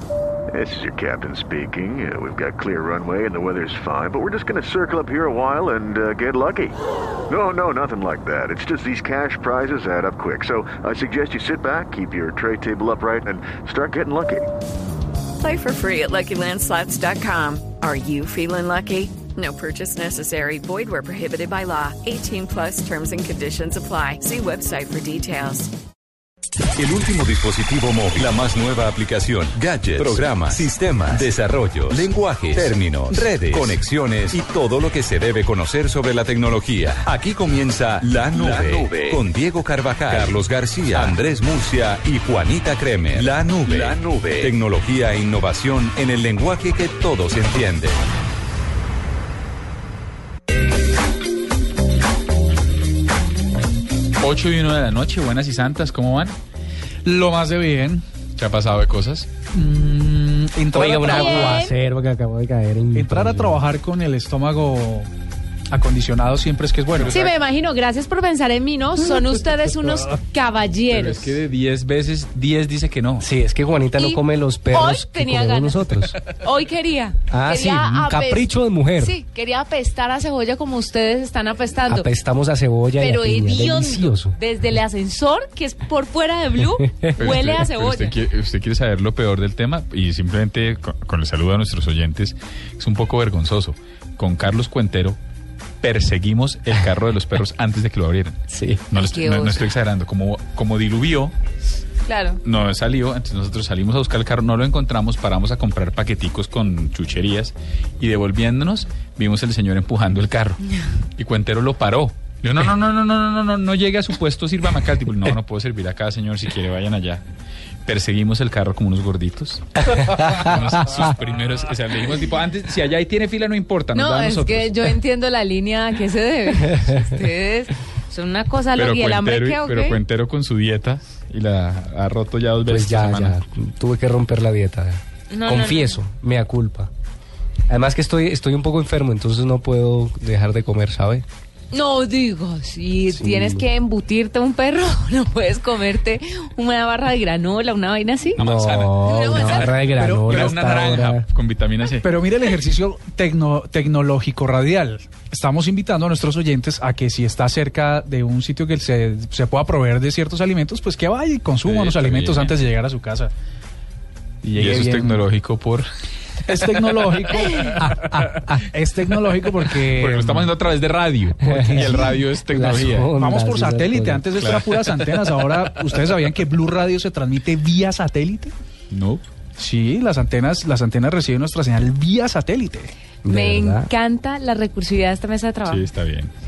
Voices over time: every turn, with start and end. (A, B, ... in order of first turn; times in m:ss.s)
0:00.5-0:06.8 A
0:07.3-0:14.5 A
0:15.4-0:25.7 B
0:26.8-0:48.0 C
0:54.2-0:56.4 D
0:57.0-0:58.0 E
0:58.4-0:59.3 D
0:59.5-1:01.7 E
1:00.7-1:03.6 F
1:01.0-1:01.7 G
1:02.9-1:05.1 E
1:05.7-1:07.2 E
1:07.0-1:07.3 D
1:07.1-1:11.2 G
1:10.9-1:13.3 D
1:13.2-1:16.1 F
1:14.7-1:15.8 G
1:16.4-1:18.5 G
1:17.3-1:19.1 F
1:19.0-1:22.1 G
1:21.9-1:24.3 F
1:23.0-1:28.1 G
1:26.7-1:27.1 F
1:27.2-1:35.2 D
1:35.8-1:41.3 D
1:38.9-1:39.6 G
1:42.1-1:42.4 G
1:42.4-1:50.6 D
1:51.2-1:57.2 D
1:57.8-1:59.6 D
2:00.2-2:04.9 D
2:03.9-2:10.0 G
2:08.8-2:13.4 D
2:12.7-2:16.9 F
2:15.3-2:16.0 G
2:17.7-2:21.2 F
2:21.7-2:28.4 G
2:23.2-2:23.6 F
2:28.4-2:31.2 F
2:28.4-2:32.1 D
2:29.0-2:29.7 G
2:30.0-2:30.8 E
2:32.0-2:43.3 E
2:41.6-2:42.5 D
2:44.4-2:45.2 E
2:44.6-2:45.9 D
2:46.5-2:50.5 E
2:47.8-2:48.6 F
2:49.9-2:53.1 D
2:51.4-2:54.2 F
2:51.6-2:52.1 E
2:53.2-2:58.5 E
2:54.4-2:55.5 D
2:58.9-2:59.2 D
2:59.6-3:02.9 E
3:03.2-3:03.9 F
3:03.3-3:05.8 G
3:05.6-3:06.3 D